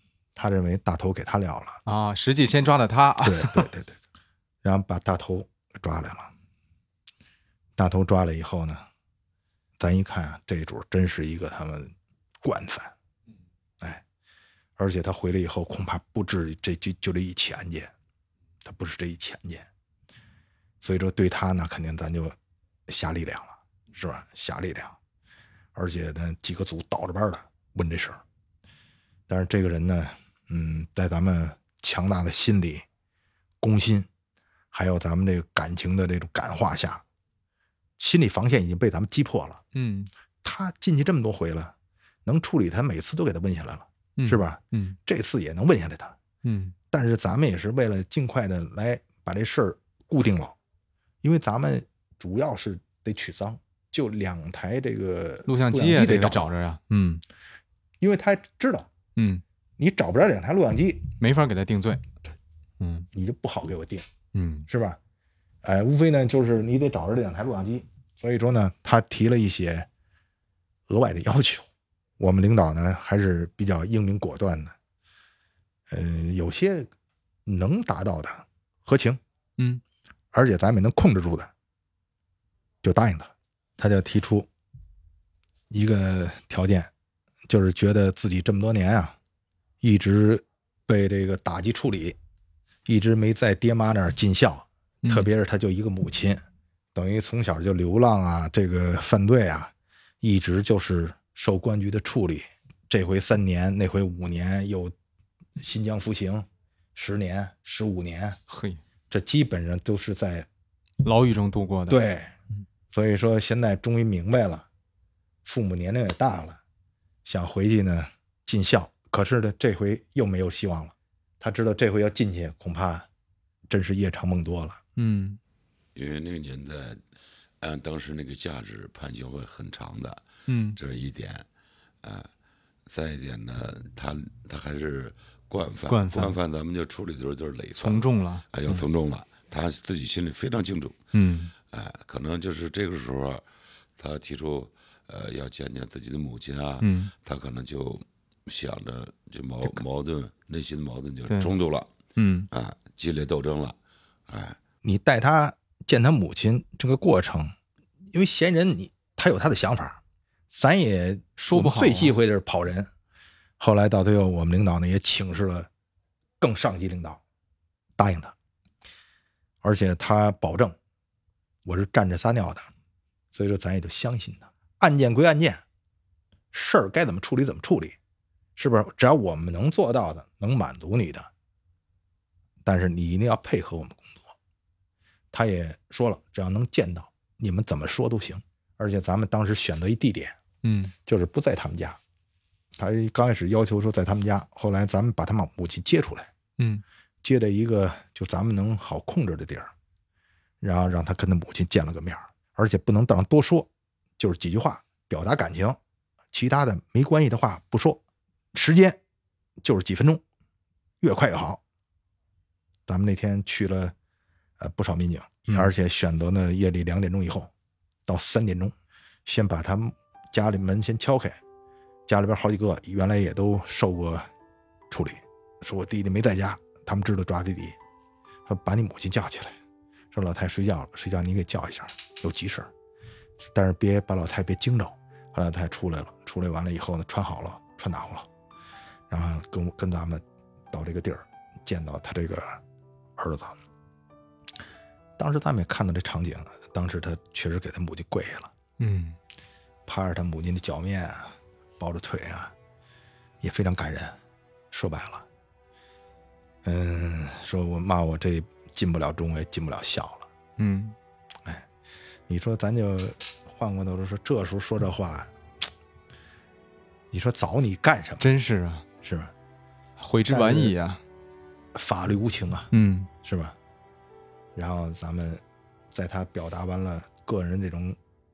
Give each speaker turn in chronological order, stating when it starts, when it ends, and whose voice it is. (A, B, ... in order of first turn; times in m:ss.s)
0:00.4-0:01.8 A
0:01.8-0:03.7 B
0:03.2-0:04.0 A
0:04.6-0:06.3 A
0:07.8-0:08.8 A
0:09.8-0:12.9 A
0:14.8-0:17.9 A
0:18.6-0:19.7 A
0:20.8-0:22.4 A
0:22.9-0:25.0 A
0:25.7-0:28.2 A
0:29.3-0:32.8 A
0:33.6-0:34.1 A
0:34.7-0:37.0 A
0:38.0-0:39.6 A
0:39.7-0:40.1 B
0:40.4-0:41.7 A
0:42.2-0:46.2 A
0:44.2-0:45.0 B
0:46.4-0:46.7 B
0:46.9-0:50.6 A
0:51.2-0:56.5 A
0:55.4-0:57.2 B
0:58.0-0:58.9 A
0:59.2-0:59.4 B
0:59.8-1:01.1 A
1:01.2-1:02.0 B
1:02.8-1:03.1 B
1:03.1-1:04.0 A
1:04.3-1:04.7 B
1:04.7-1:05.0 A
1:05.6-1:09.9 A
1:10.9-1:11.7 A
1:12.2-1:14.7 A
1:15.9-1:16.9 A
1:17.4-1:19.2 A
1:20.3-1:21.5 A
1:22.8-1:24.5 A
1:25.7-1:26.9 A
1:27.5-1:29.2 A
1:29.8-1:32.2 A
1:32.8-1:36.4 A
1:35.0-1:35.3 B
1:36.9-1:44.9 A
1:45.6-1:48.4 A
1:48.5-1:48.8 B
1:49.1-1:50.5 A
1:51.0-1:52.0 B
1:51.9-1:52.3 A
1:52.9-1:54.6 A
1:55.4-1:56.6 A
1:57.2-2:03.1 A
2:03.7-2:04.8 A
2:05.0-2:05.4 B
2:05.9-2:07.0 C
2:07.6-2:11.4 C
2:10.5-2:10.8 B
2:12.0-2:12.3 C
2:12.9-2:21.0 C
2:15.9-2:16.4 B
2:17.8-2:18.8 B
2:21.1-2:21.5 B
2:21.7-2:23.4 C
2:24.0-2:31.9 C
2:26.8-2:27.1 B
2:32.2-2:32.5 B
2:32.5-2:33.8 C
2:34.3-2:34.6 C
2:34.8-2:37.5 A
2:38.1-2:40.0 A
2:40.5-2:42.9 A
2:41.4-2:42.2 B
2:43.6-2:45.7 A
2:46.4-2:47.2 A
2:48.0-2:48.3 A
2:49.6-2:50.8 A
2:51.6-2:52.6 A
2:53.3-2:55.6 A
2:56.5-2:58.0 A
2:58.6-3:01.3 A
3:02.6-3:04.3 A
3:05.3-3:10.4 A
3:10.6-3:10.9 B
3:11.0-3:12.0 A
3:12.8-3:16.3 A
3:16.6-3:16.8 B
3:17.2-3:19.7 A
3:20.6-3:25.8 A
3:26.3-3:28.0 A
3:28.5-3:29.0 A
3:29.6-3:30.2 A
3:31.0-3:31.6 A
3:32.9-3:33.9 A
3:34.6-3:37.5 A
3:38.1-3:38.7 A
3:39.2-3:41.4 A
3:42.1-3:44.2 A
3:44.9-3:47.8 A
3:48.5-3:49.6 A
3:50.1-3:52.7 A
3:53.4-3:58.3 A
3:59.1-4:02.6 A
4:03.2-4:03.6 A
4:05.2-4:08.5 A
4:08.8-4:09.2 B
4:09.9-4:12.5 A
4:13.4-4:14.2 A
4:14.7-4:15.2 A
4:16.6-4:20.3 A
4:20.6-4:21.0 B
4:22.3-4:25.3 A
4:27.1-4:28.2 A
4:28.2-4:28.8 B
4:29.0-4:29.3 A
4:30.0-4:31.0 B
4:30.3-4:30.7 A
4:31.7-4:32.7 A
4:32.7-4:33.1 B
4:33.2-4:33.5 A
4:34.5-4:38.0 A